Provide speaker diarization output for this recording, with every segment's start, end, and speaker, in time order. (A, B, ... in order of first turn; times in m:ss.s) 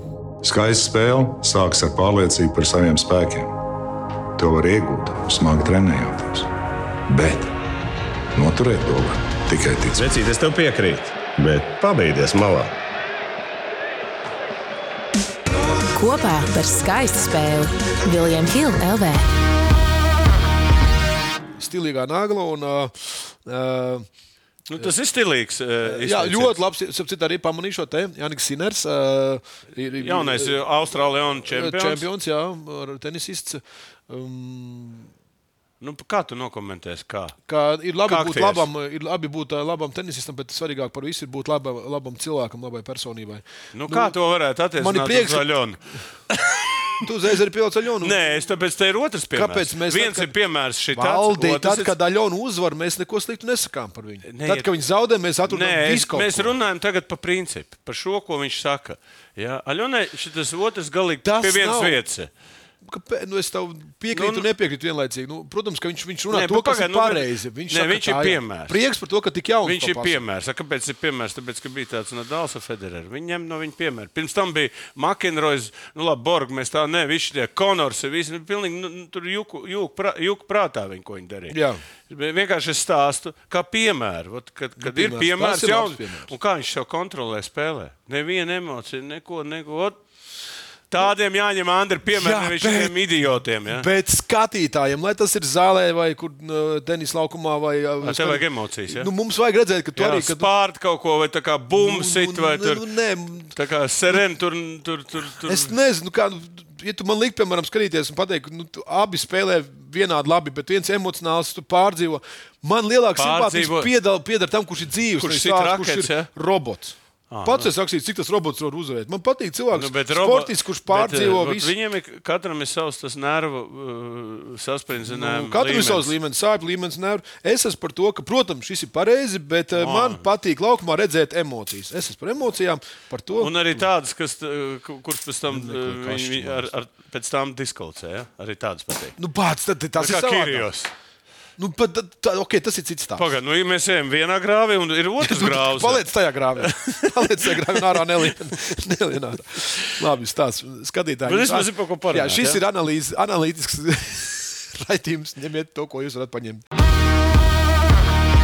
0:00.4-0:03.5 A
0:04.4-0:06.5 A
0:07.1-0:07.5 A
0:08.3-0:10.0 A
0:09.9-0:12.7 B
0:15.9-0:19.2 C
0:21.6-0:24.1 D
0:24.7-0:26.6 E
0:25.8-0:30.6 D
0:30.0-0:32.0 E
0:31.4-0:35.1 D
0:35.8-0:37.4 E
0:37.5-0:44.1 D
0:38.0-0:38.7 E
0:43.7-0:47.0 E
0:44.8-0:45.6 D
0:47.0-0:48.2 D
0:48.0-0:51.9 E
0:49.3-0:50.3 D
0:50.9-0:56.5 D
0:54.2-0:54.7 E
0:55.4-1:02.3 E
1:01.2-1:02.0 D
1:02.8-1:10.2 D
1:04.1-1:04.4 E
1:06.3-1:08.8 E
1:09.6-1:30.0 E
1:21.5-1:21.8 D
1:24.8-1:26.3 D
1:30.9-1:33.9 E
1:32.1-1:33.1 D
1:33.7-1:40.5 D
1:38.0-1:39.1 E
1:40.0-1:42.8 E
1:41.7-1:43.6 D
1:43.5-1:45.7 E
1:45.4-2:01.7 D
1:53.2-1:53.9 E
1:55.2-1:56.3 E
1:57.3-1:57.7 E
1:59.7-2:06.1 E
2:05.0-2:13.5 D
2:09.7-2:10.3 E
2:13.4-2:19.2 E
2:15.5-2:16.7 D
2:19.2-2:20.7 D
2:20.0-2:20.9 E
2:21.6-2:23.2 D
2:23.1-2:28.3 E
2:25.2-2:36.6 D
2:31.2-2:32.6 E